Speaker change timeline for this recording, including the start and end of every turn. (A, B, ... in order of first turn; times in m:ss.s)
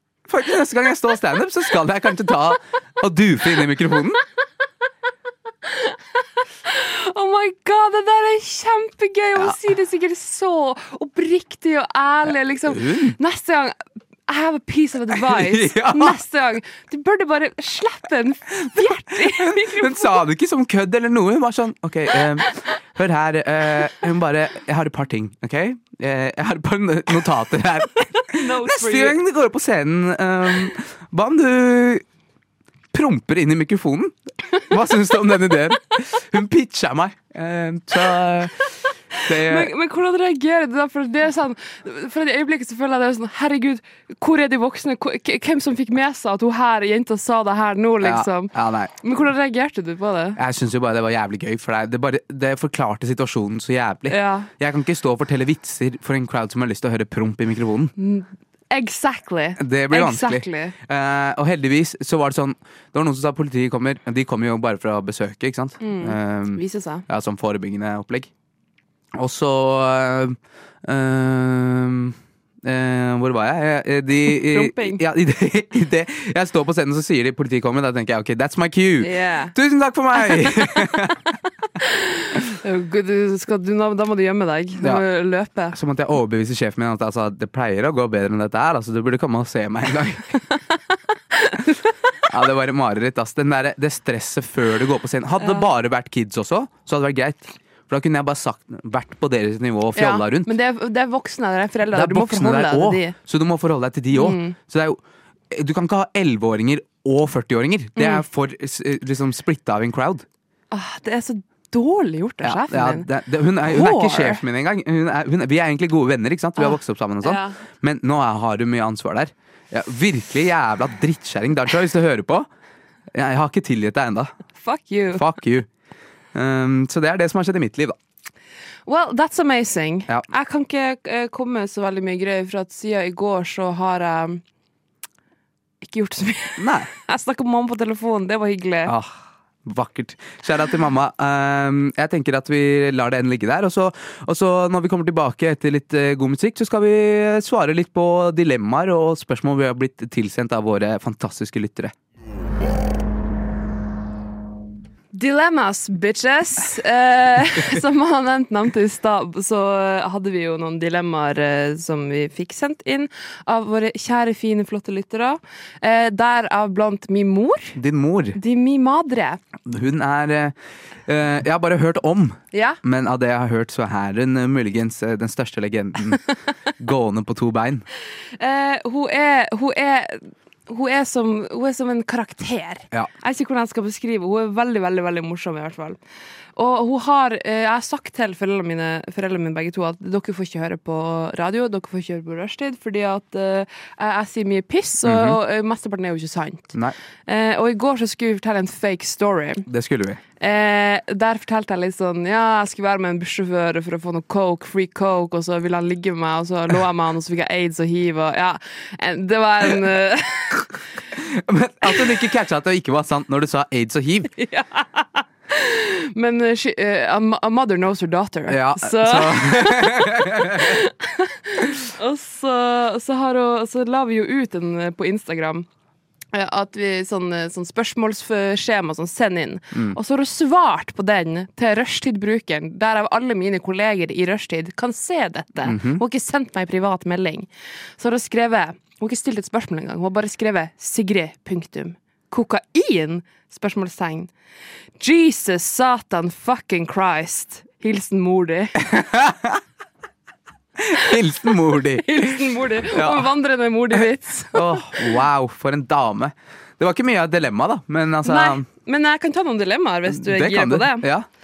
0:00.3-0:04.2 A
0:05.6-0:06.0 B
0:06.6-0:13.7 B
0:12.3-0:13.2 A
0:14.3-0:20.2 B
0:15.1-0:16.2 A
0:18.6-0:32.0 A
0:28.2-0:29.2 B
0:32.9-0:38.6 A
0:39.2-0:39.7 A
0:39.3-0:50.4 B
0:48.0-0:48.9 A
0:50.4-0:57.9 A
0:54.1-0:54.5 B
0:58.0-1:00.7 B
0:59.6-1:08.3 A
1:05.8-1:07.0 B
1:09.1-1:21.4 A
1:14.3-1:15.0 B
1:19.0-1:19.5 B
1:21.8-1:25.8 B
1:25.7-1:30.4 A
1:31.3-1:31.9 B
1:32.3-1:40.5 A
1:35.4-1:35.7 B
1:39.9-1:43.1 B
1:41.9-1:45.0 A
1:44.1-1:44.6 B
1:45.5-1:50.2 A
1:48.0-1:48.2 B
1:50.7-1:53.1 B
1:52.4-2:02.5 A
1:53.6-1:54.4 B
1:56.6-1:57.6 B
2:03.1-2:04.3 A
2:04.6-2:05.2 B
2:05.1-2:05.7 A
2:06.3-2:08.0 A
2:08.8-2:14.4 B
2:15.8-2:18.9 B
2:16.6-2:16.9 A
2:18.8-2:31.9 A
2:35.1-2:47.8 B
2:47.8-2:48.4 A
2:48.3-2:49.4 B
2:49.6-2:56.2 A
2:52.5-2:52.8 B
2:56.8-2:57.8 A
2:58.4-3:06.0 B
3:06.6-3:16.8 B
3:15.0-3:15.4 A
3:17.3-3:19.7 B
3:19.7-3:20.2 A
3:20.4-3:30.8 B
3:31.2-3:34.3 A
3:34.4-3:45.7 B
3:38.5-3:40.7 A
3:46.3-4:04.3 B
3:49.7-3:50.0 A
3:55.6-3:56.0 A
4:05.0-4:08.8 B
4:08.8-4:09.6 A
4:10.8-4:13.3 A
4:12.0-4:15.2 B
4:14.5-4:18.6 A
4:18.2-4:21.1 B
4:20.1-4:21.3 A